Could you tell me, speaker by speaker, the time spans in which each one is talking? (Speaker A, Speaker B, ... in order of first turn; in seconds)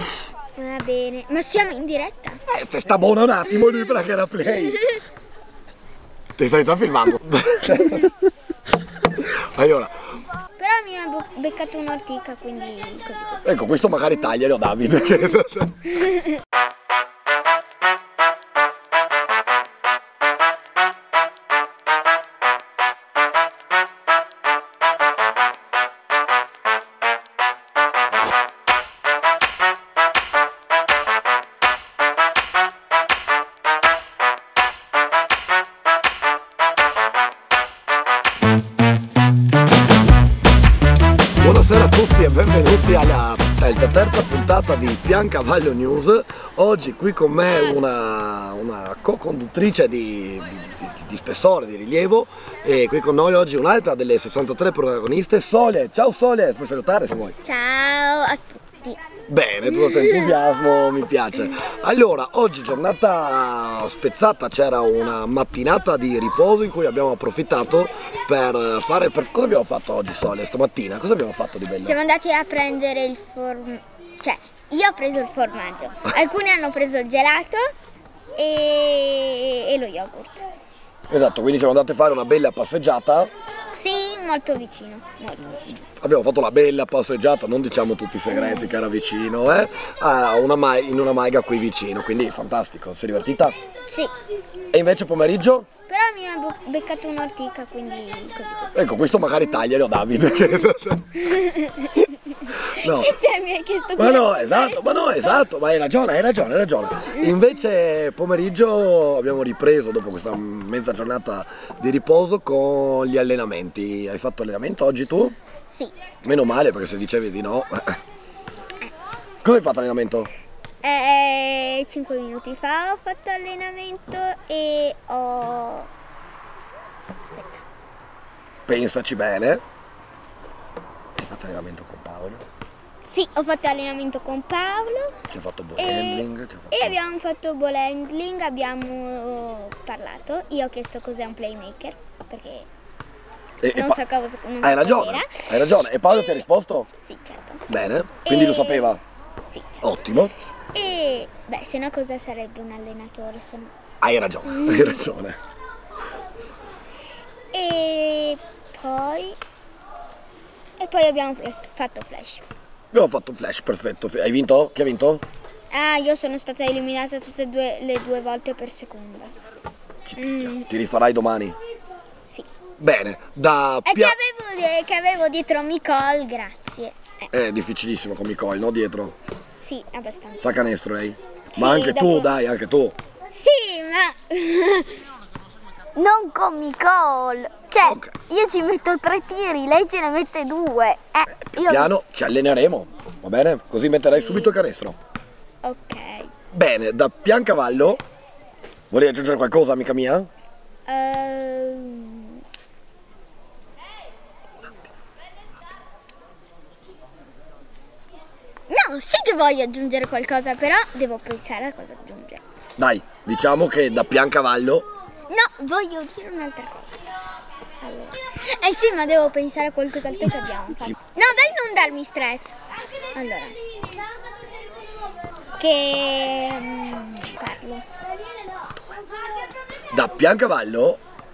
Speaker A: 0.6-2.4, 4.5-5.0, 10.6-13.5, 15.9-16.4, 57.4-59.0, 59.7-60.4, 71.8-77.6, 78.4-80.5, 83.7-85.8, 88.3-88.7, 95.9-98.9, 101.1-105.2, 107.1-107.4, 115.7-115.9, 120.8-125.9, 127.3-127.6, 133.1-135.1, 135.8-142.7, 143.7-145.8, 147.0-147.7, 148.2-149.8, 150.7-153.7, 154.5-155.0, 157.5-159.4, 160.8-162.4, 165.7-169.3, 170.2-170.7, 173.8-177.3, 179.6-180.6, 181.5-182.3, 183.3-185.0, 185.9-191.9, 194.1-194.6, 195.6-196.3, 200.9-202.4, 208.7-212.4, 215.3-216.9, 217.8-222.6, 223.1-223.6, 225.6-227.8
Speaker B: 2.5-4.8, 6.4-8.1, 9.1-9.9, 13.4-15.9, 41.4-57.4, 59.3-72.0, 81.1-83.3, 85.8-93.5, 94.7-95.7, 98.8-101.2, 102.7-103.2, 104.0-115.3, 116.2-118.0, 119.4-120.3, 128.7-129.6, 131.2-132.4, 135.3-137.0, 143.6-144.0, 144.6-146.9, 147.7-149.0, 149.8-150.3, 154.0-155.4, 162.9-165.2, 170.1-171.6, 172.8-174.2, 177.3-179.2, 180.4-183.0, 187.8-188.1, 191.6-195.0, 196.5-198.0, 198.9-200.3, 212.8-214.9, 229.9-231.0